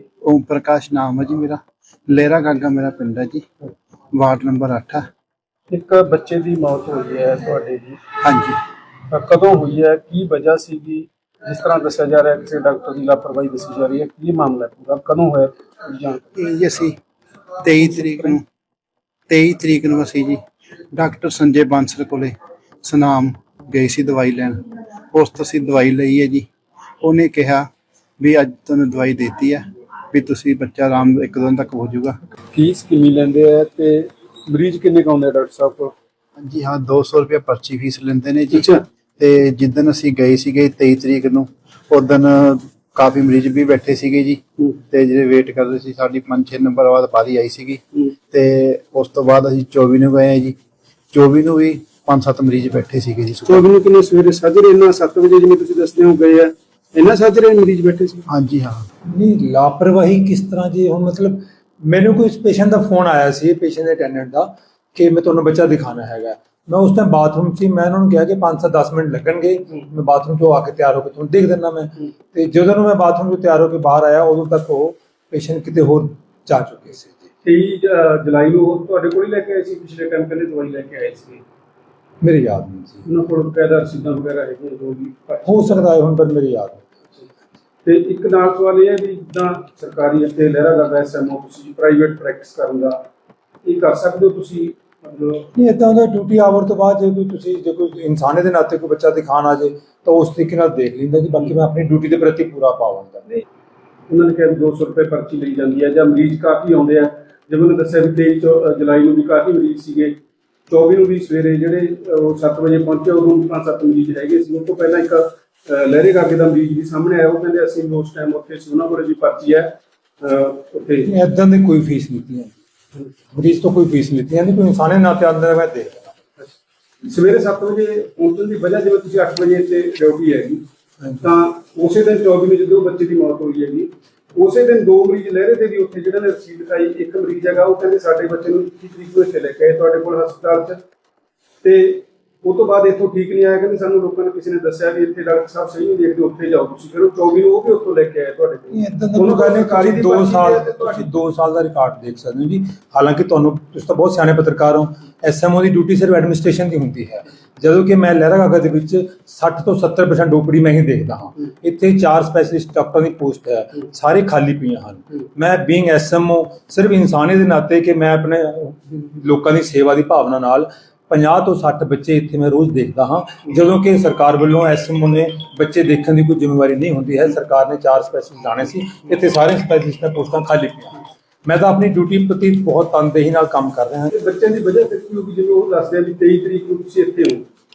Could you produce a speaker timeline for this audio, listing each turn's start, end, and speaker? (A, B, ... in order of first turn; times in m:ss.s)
0:00.2-0:03.5 A
0:04.1-0:05.0 A
0:05.7-0:08.0 B
0:08.2-0:08.6 A
0:09.1-0:16.2 B
0:16.3-0:17.0 A
0:17.6-0:18.4 A
0:19.3-0:20.4 A
0:20.9-0:24.6 A
0:25.1-0:26.5 A
0:27.0-0:27.7 A
0:28.2-0:32.2 A
0:32.5-0:35.9 B
0:36.4-0:50.6 A
0:38.5-0:38.8 B
0:51.1-0:53.6 A
0:53.4-0:58.3 B
0:58.3-0:58.8 A
0:59.1-1:17.2 C
1:17.4-1:21.4 B
1:22.2-1:23.0 C
1:23.0-1:25.9 B
1:25.4-1:26.9 C
1:27.8-1:33.0 B
1:33.6-1:35.5 B
1:35.5-1:43.2 C
1:44.1-1:50.2 B
1:50.7-2:01.1 B
2:01.0-2:02.5 C
2:03.3-2:06.1 C
2:06.4-2:10.6 B
2:11.2-2:20.8 B
2:21.6-2:31.1 B
2:28.7-3:04.1 C
3:04.1-3:07.4 B